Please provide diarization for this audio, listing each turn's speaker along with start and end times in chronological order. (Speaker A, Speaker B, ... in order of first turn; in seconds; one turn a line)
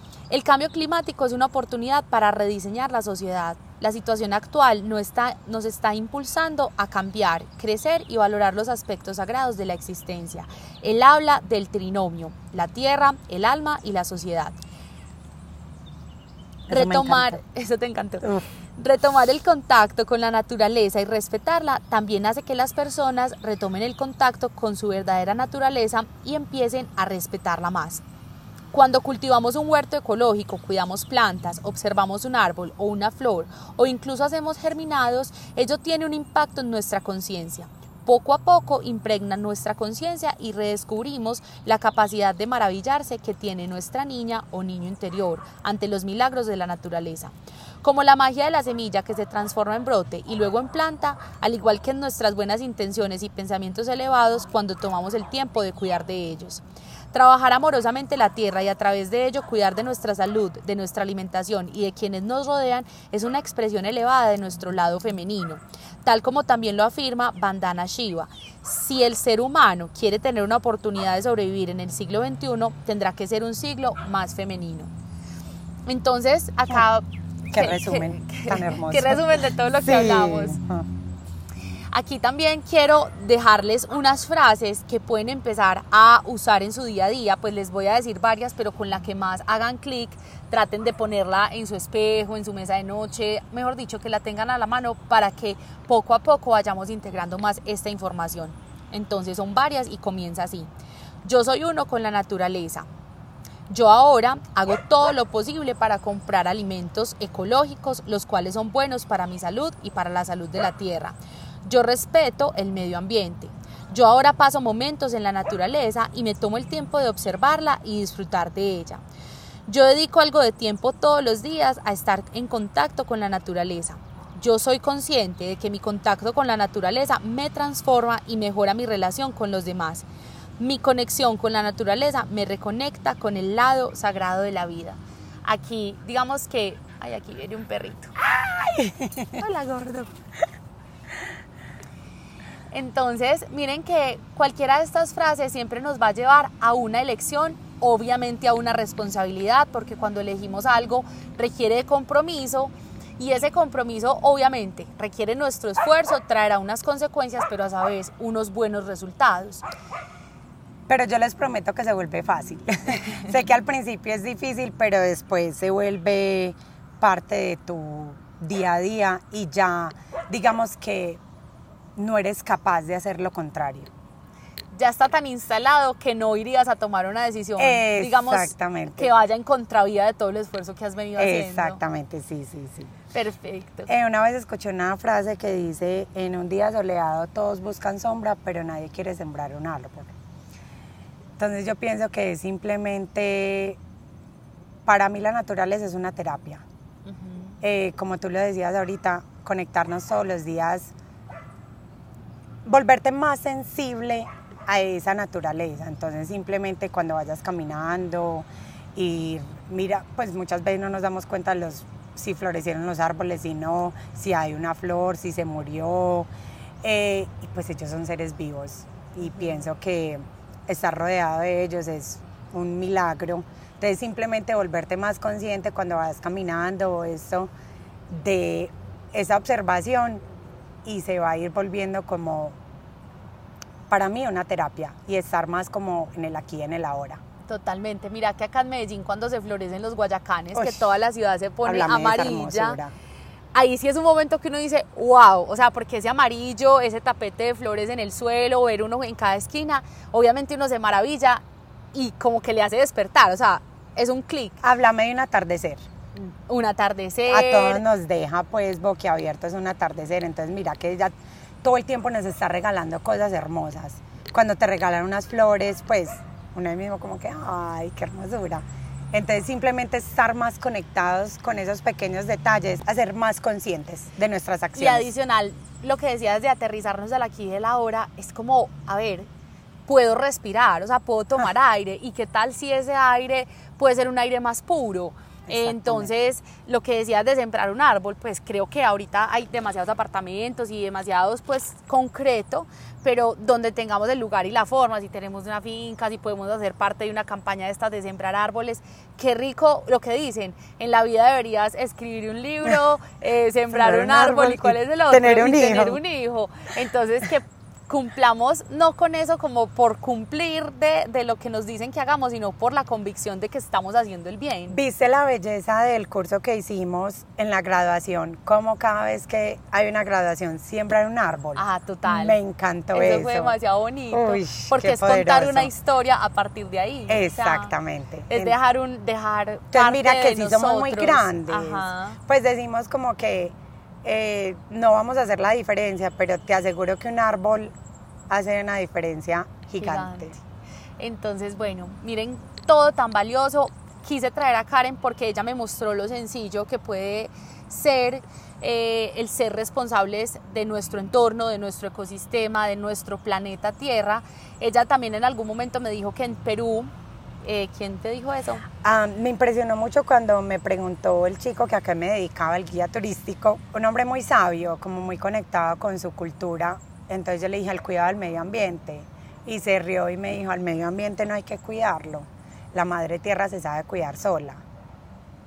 Speaker A: 0.3-14.6
Speaker B: 16.7-17.4
Speaker A: 16.7-28.0
Speaker A: 28.7-56.6
Speaker A: 57.1-74.9
Speaker A: 75.8-80.6
Speaker B: 77.5-80.8
Speaker A: 81.9-100.7
Speaker A: 101.2-102.9
Speaker A: 103.7-119.0
Speaker A: 119.7-130.1
Speaker A: 130.6-138.1
Speaker B: 138.2-139.4
Speaker A: 139.4-140.1
Speaker A: 142.7-159.6
Speaker B: 160.9-171.2
Speaker B: 172.0-173.9
Speaker A: 174.7-181.8
Speaker B: 177.6-179.1
Speaker B: 181.2-182.9
Speaker A: 183.1-183.9
Speaker B: 183.9-190.1
Speaker B: 191.4-193.8
Speaker B: 194.8-196.6
Speaker A: 197.1-197.6
Speaker B: 197.6-200.9
Speaker B: 202.7-216.3
Speaker B: 216.8-227.5
Speaker A: 219.2-219.7
Speaker B: 228.1-230.2
Speaker B: 230.8-232.6
Speaker B: 233.9-237.2
Speaker A: 237.4-242.8
Speaker B: 240.5-240.9
Speaker B: 241.6-242.9
Speaker A: 243.5-251.4
Speaker A: 251.9-254.6
Speaker B: 254.6-255.8
Speaker A: 256.1-257.8
Speaker B: 257.3-261.1
Speaker B: 261.6-275.1
Speaker A: 274.7-279.3
Speaker A: 279.9-314.8
Speaker B: 285.5-286.1
Speaker B: 303.7-306.0
Speaker B: 314.7-323.5
Speaker A: 321.6-322.4
Speaker A: 322.9-327.7
Speaker B: 324.1-325.7
Speaker B: 327.1-328.6
Speaker A: 328.3-332.2
Speaker B: 329.7-337.7
Speaker B: 338.3-340.3
Speaker A: 339.8-340.4
Speaker A: 341.0-356.9
Speaker A: 357.4-358.6
Speaker B: 358.8-374.6